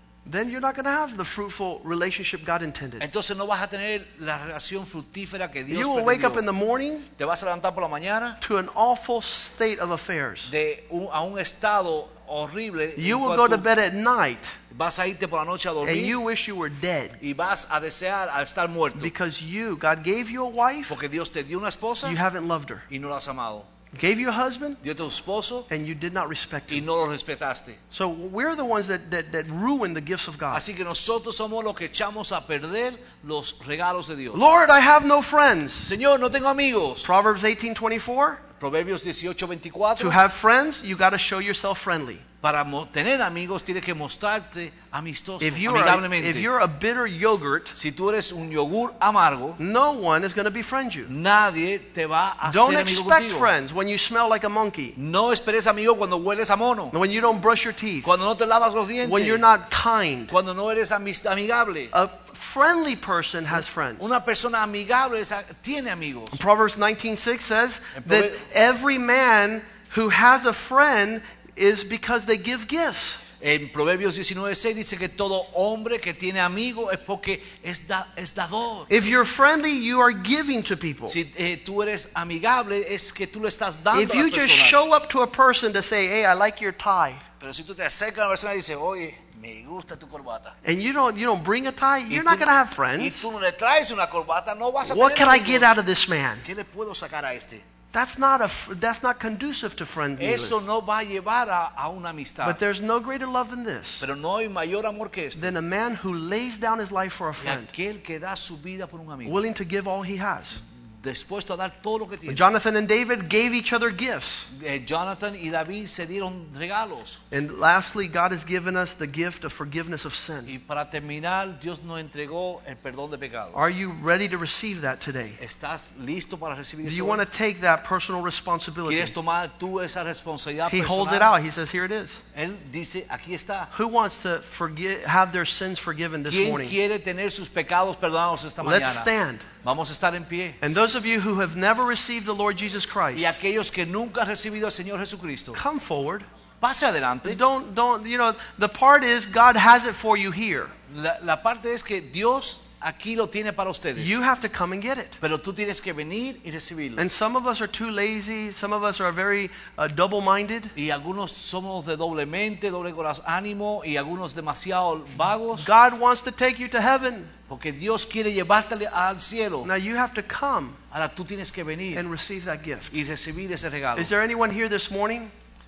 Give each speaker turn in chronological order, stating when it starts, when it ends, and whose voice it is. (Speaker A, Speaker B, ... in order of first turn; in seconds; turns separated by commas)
Speaker A: 0.2-3.1, Speaker B: 3.0-6.5, Speaker A: 5.7-7.1, Speaker B: 7.2-8.4, Speaker A: 8.4-10.5, Speaker B: 10.5-13.7, Speaker A: 13.0-14.6, Speaker B: 14.7-16.2, Speaker A: 15.8-17.2, Speaker B: 17.2-19.1, Speaker A: 18.9-20.9, Speaker B: 20.9-22.2, Speaker A: 22.0-22.9, Speaker B: 22.9-23.7, Speaker A: 23.9-24.8, Speaker B: 24.8-25.7, Speaker A: 25.7-26.9, Speaker B: 26.7-27.8, Speaker A: 27.9-30.6, Speaker B: 30.5-34.4, Speaker A: 34.3-35.9, Speaker B: 35.8-37.1, Speaker A: 37.0-38.4, Speaker B: 38.5-40.2, Speaker A: 40.0-42.2, Speaker B: 42.4-46.5, Speaker A: 45.4-47.8, Speaker B: 47.7-49.6, Speaker A: 49.6-51.1, Speaker B: 51.0-53.5, Speaker A: 52.4-55.0, Speaker B: 55.0-57.0, Speaker A: 56.9-58.1, Speaker B: 58.0-59.5, Speaker A: 59.0-60.3, Speaker B: 60.3-61.9, Speaker A: 61.9-64.1, Speaker B: 63.5-66.4, Speaker A: 66.3-73.2, Speaker B: 68.0-68.4, Speaker B: 73.4-78.9, Speaker A: 78.9-81.2, Speaker B: 81.1-84.8, Speaker A: 83.9-87.2, Speaker B: 87.4-90.5, Speaker A: 90.6-93.2, Speaker B: 92.1-95.7, Speaker A: 94.8-96.4, Speaker B: 96.4-97.6, Speaker A: 97.9-100.6, Speaker B: 100.2-102.6, Speaker A: 102.4-104.0, Speaker B: 104.0-105.5, Speaker A: 105.3-107.7, Speaker B: 107.4-109.4, Speaker A: 109.2-110.6, Speaker B: 111.0-112.5, Speaker A: 112.2-114.5, Speaker B: 114.5-117.2, Speaker A: 117.3-120.5, Speaker B: 120.5-123.6, Speaker A: 123.5-125.4, Speaker B: 125.4-127.2, Speaker A: 126.8-129.1, Speaker B: 128.8-131.3, Speaker A: 130.7-132.2, Speaker B: 132.3-133.7, Speaker A: 133.7-136.8, Speaker B: 136.3-139.1, Speaker A: 138.6-139.5, Speaker B: 139.6-140.6, Speaker A: 140.6-143.3, Speaker B: 143.1-145.6, Speaker A: 145.5-146.2, Speaker B: 146.6-147.4, Speaker A: 147.2-150.7, Speaker B: 150.9-154.2, Speaker A: 153.9-155.2, Speaker B: 155.2-157.0, Speaker A: 157.0-160.7, Speaker B: 160.7-165.7, Speaker A: 165.5-167.3, Speaker B: 167.5-169.7, Speaker A: 169.6-170.8, Speaker B: 170.9-172.1, Speaker A: 171.9-172.9, Speaker B: 172.9-174.1, Speaker A: 173.9-175.3